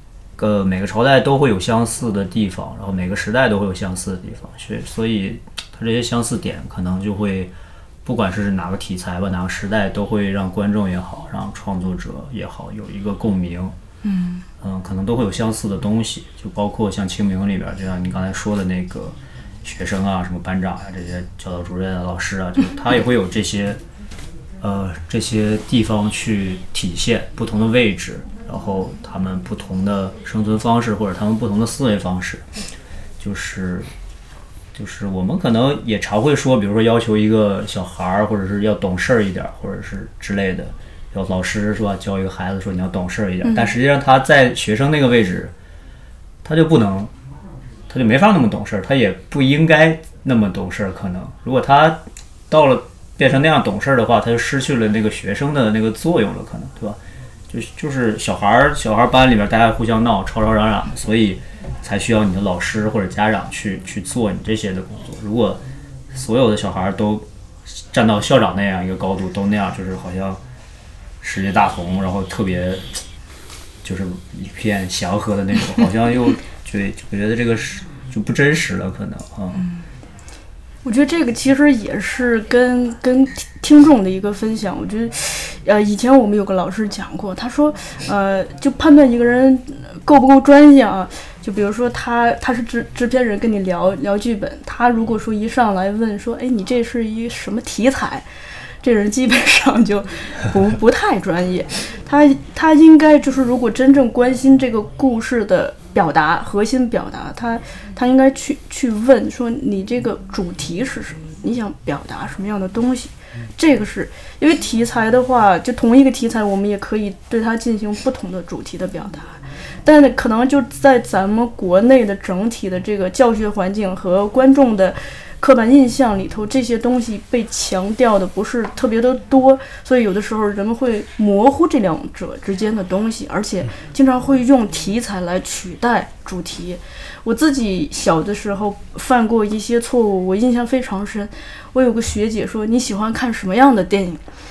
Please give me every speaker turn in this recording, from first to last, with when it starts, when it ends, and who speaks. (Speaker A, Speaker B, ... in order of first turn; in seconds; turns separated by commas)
Speaker A: 0.4-7.5, Speaker A: 8.1-13.8, Speaker B: 14.0-14.4, Speaker A: 14.6-23.8, Speaker A: 24.6-32.4, Speaker A: 33.2-33.9, Speaker A: 34.8-45.5, Speaker B: 43.4-43.7, Speaker A: 46.4-47.1, Speaker A: 47.9-57.0, Speaker A: 57.5-70.4, Speaker A: 71.2-73.0, Speaker A: 73.8-79.7, Speaker B: 79.6-79.8, Speaker B: 80.8-98.3, Speaker B: 98.8-144.2